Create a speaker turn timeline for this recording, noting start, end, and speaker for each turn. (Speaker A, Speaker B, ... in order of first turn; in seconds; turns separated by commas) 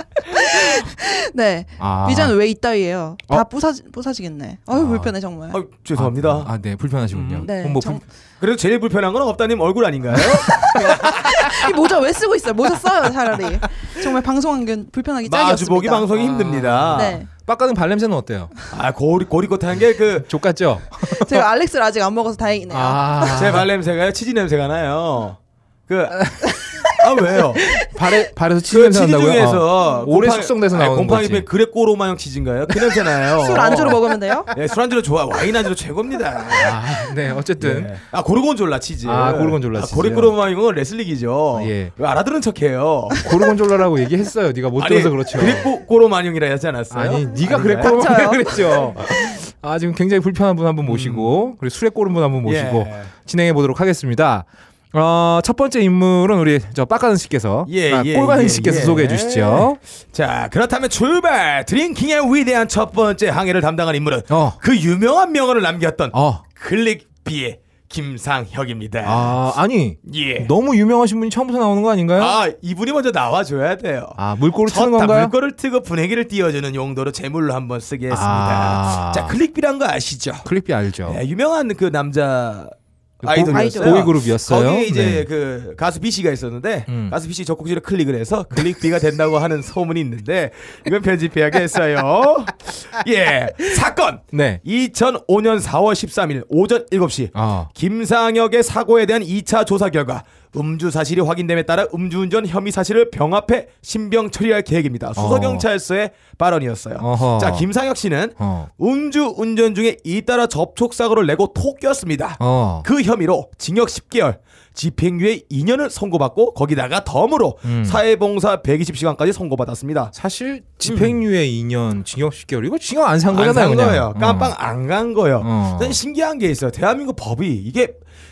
Speaker A: 0.2-5.6, Speaker B: 1.8-2.4, Speaker B: 4.7-5.2, Speaker C: 5.5-6.5, Speaker B: 5.9-8.0, Speaker C: 7.1-7.5, Speaker A: 7.4-8.0, Speaker C: 8.4-11.4, Speaker A: 10.3-16.1, Speaker C: 15.2-17.2, Speaker B: 16.1-18.5, Speaker A: 16.9-17.3, Speaker C: 18.7-20.3, Speaker B: 20.2-21.5, Speaker A: 21.1-23.4, Speaker B: 22.7-23.7, Speaker C: 23.3-26.2, Speaker B: 26.2-26.9, Speaker C: 27.0-27.7, Speaker B: 27.6-31.5, Speaker C: 28.7-34.0, Speaker A: 33.3-34.5, Speaker B: 33.5-34.4, Speaker C: 34.5-36.9, Speaker B: 36.5-38.0, Speaker C: 37.6-43.3, Speaker B: 39.0-40.4, Speaker B: 41.5-41.9, Speaker B: 43.2-45.7, Speaker C: 44.8-48.6, Speaker B: 46.9-59.8, Speaker A: 47.5-49.0, Speaker C: 50.8-51.3, Speaker C: 52.5-53.1, Speaker C: 57.7-69.4, Speaker B: 64.3-64.6, Speaker B: 66.1-66.4, Speaker B: 69.0-72.3, Speaker C: 70.0-70.5, Speaker C: 72.2-80.5, Speaker B: 74.2-75.3, Speaker B: 78.1-79.4, Speaker B: 80.4-81.2, Speaker C: 81.1-120.1, Speaker B: 83.2-85.3, Speaker A: 83.5-84.1, Speaker B: 86.9-87.2, Speaker B: 94.3-94.6, Speaker B: 97.3-97.7, Speaker B: 105.2-105.7, Speaker B: 107.0-107.7, Speaker B: 108.4-108.7, Speaker B: 112.4-112.9, Speaker B: 117.6-118.0, Speaker B: 120.1-124.6, Speaker C: 120.8-121.2, Speaker C: 123.3-128.0, Speaker B: 125.4-126.0